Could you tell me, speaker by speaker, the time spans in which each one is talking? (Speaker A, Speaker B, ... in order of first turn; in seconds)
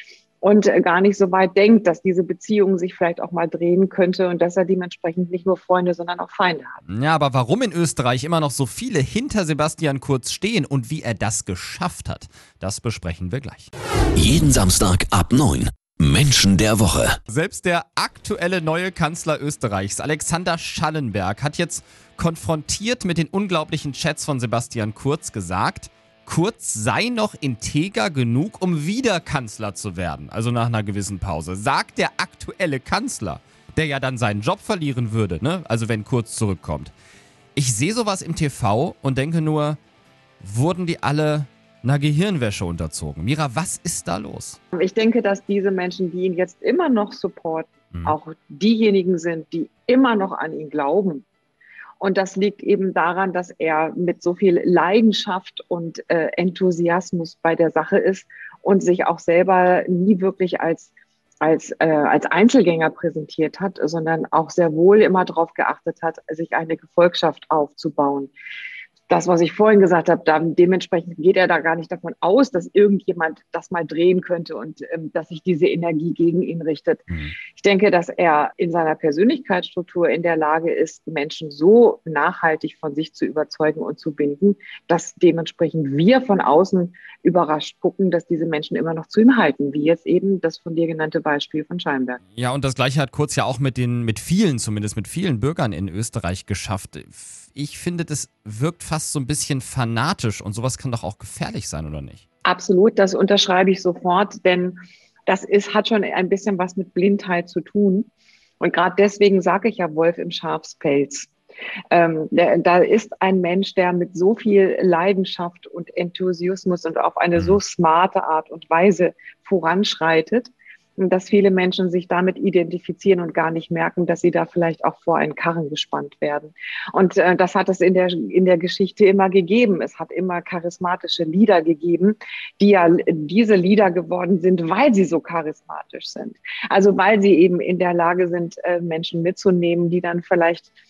Speaker A: 0.4-6.8, 44.7-51.2, 52.0-60.9, 61.4-68.3, 69.1-92.2, 102.4-111.3, 111.9-140.7
Speaker B: 6.9-13.7, 17.3-36.9, 37.5-39.8, 40.4-44.6, 77.1-77.3, 92.3-102.2
Speaker C: 14.2-17.2